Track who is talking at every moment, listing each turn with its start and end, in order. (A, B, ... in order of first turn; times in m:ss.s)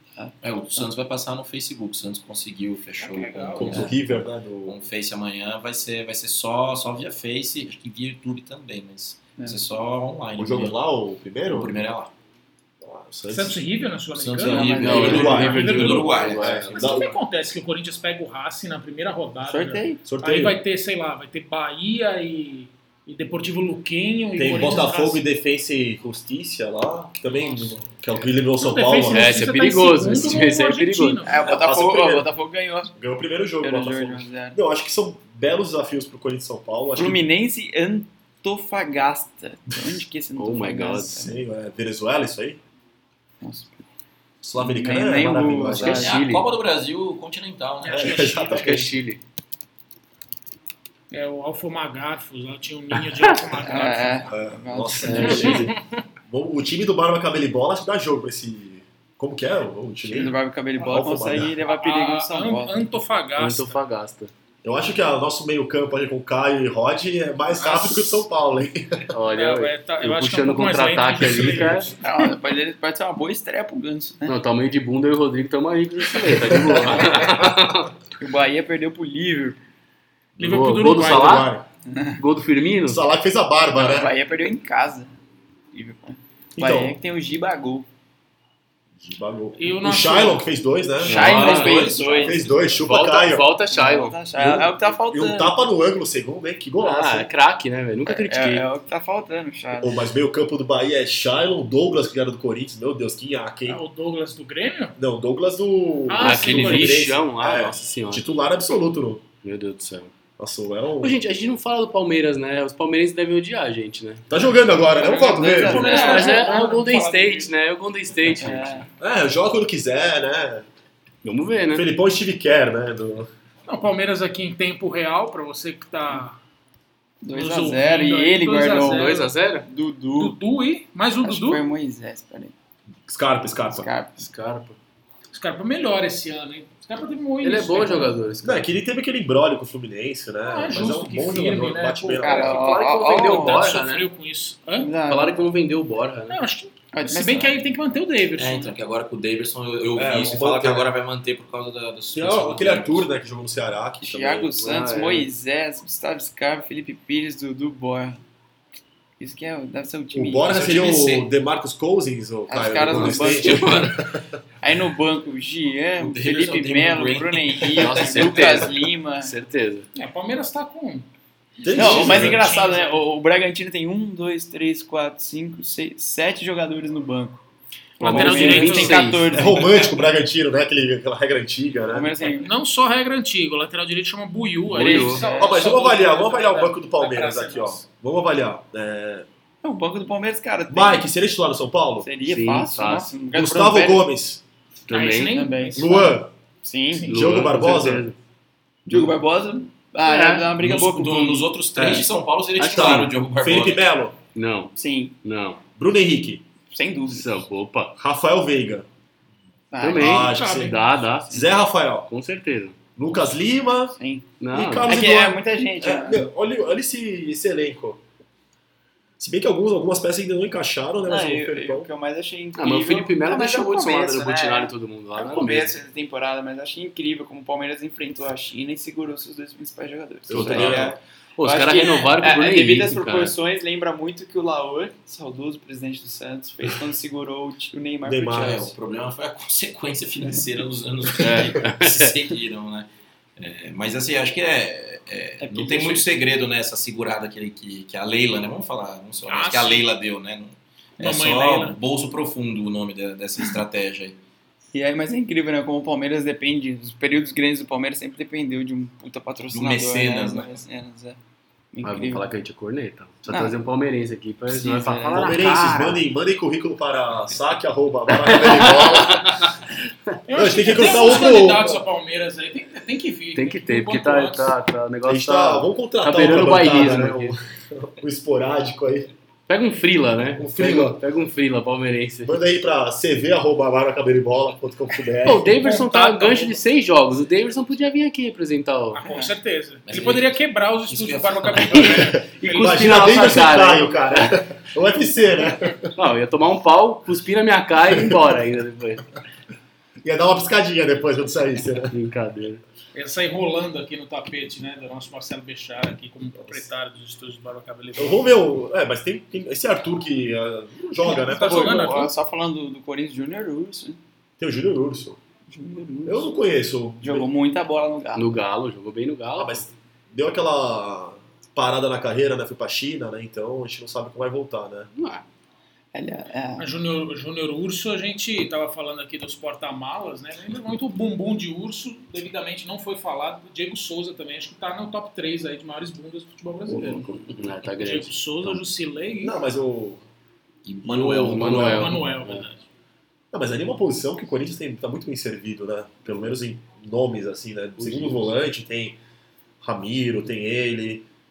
0:00.2-0:00.9 A
0:00.4-0:10.8 B
0:03.0-0:04.0 C
0:03.5-0:04.8 D
0:10.4-0:11.8 D
0:11.4-0:12.1 B
0:12.8-0:13.6 D
0:13.3-0:25.2 C
0:14.1-0:17.1 B
0:14.4-0:15.4 A
0:14.8-0:16.8 E
0:14.8-0:17.1 D
0:19.4-0:20.0 A
0:20.0-0:20.6 D
0:24.4-0:29.4 D
0:28.6-0:31.4 C
0:29.1-0:31.2 E
0:30.0-0:30.4 D
0:31.2-0:32.9 A
0:31.4-0:32.3 D
0:33.0-0:37.2 D
0:33.6-0:34.6 A
0:37.0-0:41.4 A
0:40.4-0:41.2 E
0:41.2-0:42.6 D
0:43.4-0:43.8 A
0:44.4-0:46.1 D
0:44.6-0:46.2 A
0:45.8-0:46.5 E
0:45.8-0:48.4 B
0:47.8-0:48.8 C
0:47.9-0:49.0 D
0:48.5-0:49.2 E
0:51.1-0:54.3 C
0:53.1-0:53.4 E
0:53.6-0:55.6 A
0:54.3-1:01.6 D
0:55.0-0:55.7 E
0:55.1-0:55.8 C
1:00.0-1:02.8 A
1:01.6-1:03.8 C
1:03.4-1:04.3 E
1:04.6-1:09.1 D
1:07.5-1:08.2 C
1:09.1-1:11.9 E
1:09.3-1:12.0 C
1:11.9-1:14.3 A
1:14.2-1:17.9 E
1:16.2-1:17.5 D
1:18.1-1:19.6 A
1:20.4-1:21.6 D
1:20.4-1:21.5 C
1:20.4-1:21.5 E
1:21.9-1:22.2 A
1:22.2-1:23.0 E
1:22.8-1:24.1 D
1:23.8-1:25.1 A
1:25.7-1:27.9 A
1:26.6-1:27.0 D
1:29.0-1:33.5 D
1:29.6-1:30.5 C
1:31.0-1:32.4 A
1:31.0-1:32.0 E
1:31.1-1:32.8 B
1:32.8-1:34.2 E
1:33.7-1:35.5 A
1:34.4-1:37.3 D
1:36.8-1:38.6 E
1:38.0-1:40.0 A
1:39.8-1:43.8 D
1:43.6-1:45.0 C
1:45.0-1:49.3 D
1:46.0-1:47.1 C
1:46.2-1:48.2 E
1:49.4-1:50.1 E
1:50.4-1:51.2 D
1:51.0-1:54.3 E
1:54.3-1:56.2 D
1:55.0-1:56.7 A
1:55.1-1:57.5 C
1:55.7-1:58.9 E
1:58.2-1:58.9 A
1:59.0-2:00.7 D
2:01.2-2:01.9 E
2:01.7-2:03.3 D
2:03.7-2:06.4 C
2:07.2-2:10.4 A
2:07.3-2:09.3 C
2:08.8-2:09.7 E
2:10.1-2:11.6 C
2:11.2-2:12.5 A
2:13.1-2:13.9 D
2:13.7-2:14.2 A
2:14.2-2:14.8 E
2:15.3-2:18.2 C
2:17.4-2:18.7 E
2:18.4-2:22.6 D
2:20.4-2:22.5 C
2:22.2-2:23.8 A
2:22.3-2:24.1 E
2:23.2-2:24.9 C
2:24.8-2:25.4 A
2:25.0-2:26.4 E
2:26.3-2:28.8 C
2:26.9-2:27.6 A
2:28.4-2:33.1 B
2:30.0-2:30.9 D
2:32.1-2:34.5 D
2:34.0-2:38.2 A
2:34.6-2:35.3 E
2:39.2-2:40.6 A
2:40.1-2:44.2 D
2:40.4-2:41.3 B
2:42.5-2:43.8 A
2:42.9-2:43.3 E
2:43.3-2:44.0 B
2:44.6-2:49.3 A
2:46.0-2:48.4 B
2:47.7-2:49.9 E
2:49.9-2:51.1 C
2:51.6-2:52.6 D
2:51.6-2:53.0 C
2:51.7-2:57.4 A
2:58.0-3:00.0 A
2:58.0-2:59.4 E
2:58.0-2:59.2 C
2:59.3-3:02.1 D
3:01.9-3:02.5 A
3:02.4-3:07.8 C
3:04.7-3:05.2 E
3:04.8-3:05.7 A
3:04.9-3:09.3 D
3:09.6-3:11.1 A
3:10.7-3:12.1 D
3:12.0-3:14.1 A
3:12.2-3:13.2 E
3:13.3-3:14.4 D
3:14.9-3:15.4 E
3:14.9-3:15.9 C
3:15.3-3:17.1 A
3:15.7-3:16.3 D
3:16.9-3:17.3 C
3:17.1-3:18.1 D
3:17.1-3:18.2 E
3:18.9-3:22.0 A
3:20.0-3:20.5 E
3:20.6-3:23.9 B
3:22.6-3:23.1 E
3:22.7-3:24.2 D
3:24.3-3:25.6 E
3:24.8-3:25.2 A
3:25.8-3:26.4 D
3:26.7-3:27.3 A
3:27.1-3:28.0 E
3:28.0-3:28.9 D
3:29.7-3:30.3 A
3:29.8-3:31.4 E
3:30.0-3:32.1 D
3:30.3-3:30.9 C
3:32.1-3:32.8 E
3:33.0-3:34.0 D
3:34.0-3:34.3 A
3:34.4-3:35.0 E
3:34.5-3:38.0 D
3:34.8-3:36.3 A
3:39.2-3:41.9 D
3:41.0-3:58.7 A
3:42.6-3:45.8 E
3:50.3-3:51.0 D
3:50.4-3:50.8 E
3:51.4-3:53.3 E
3:58.0-3:58.7 D
3:58.3-4:14.2 B
4:01.2-4:02.1 E
4:05.4-4:06.1 A
4:09.3-4:09.8 C
4:11.0-4:11.8 C
4:14.7-4:21.2 A
4:19.5-4:20.5 B
4:21.7-4:22.3 A
4:21.8-4:26.0 E
4:23.3-4:23.6 A
4:24.5-4:25.4 A
4:25.1-4:29.4 D
4:28.1-4:29.5 E
4:30.3-4:34.6 C
4:30.3-4:31.8 D
4:33.3-4:37.3 E
4:35.0-4:39.1 D
4:39.5-4:42.4 E
4:40.4-4:41.0 D
4:42.2-4:45.6 D
4:45.2-4:49.0 E
4:45.6-4:46.6 C
4:48.9-4:53.1 C
4:49.0-4:49.3 A
4:49.8-4:50.3 B
4:50.9-4:52.2 B
4:51.9-4:55.9 D
4:52.5-4:54.3 E
4:56.0-4:59.0 E
4:57.9-4:58.2 D
5:00.0-5:01.9 D
5:01.9-5:02.6 E
5:02.9-5:08.3 C
5:08.0-5:12.0 D
5:11.0-5:12.1 C
5:11.3-5:14.0 A
5:14.4-5:15.2 D
5:15.5-5:16.3 A
5:16.0-5:17.3 D
5:17.0-5:18.2 A
5:18.2-5:19.6 E
5:19.4-5:24.9 D
5:24.9-5:25.2 E
5:25.9-5:26.7 A
5:26.6-5:39.4 C
5:36.7-5:38.6 E
5:39.2-5:40.0 D
5:40.6-5:41.9 B
5:40.9-5:42.4 E
5:41.0-5:41.8 D
5:41.7-5:42.6 C
5:43.3-5:49.0 D
5:47.8-5:48.2 E
5:49.6-5:51.0 D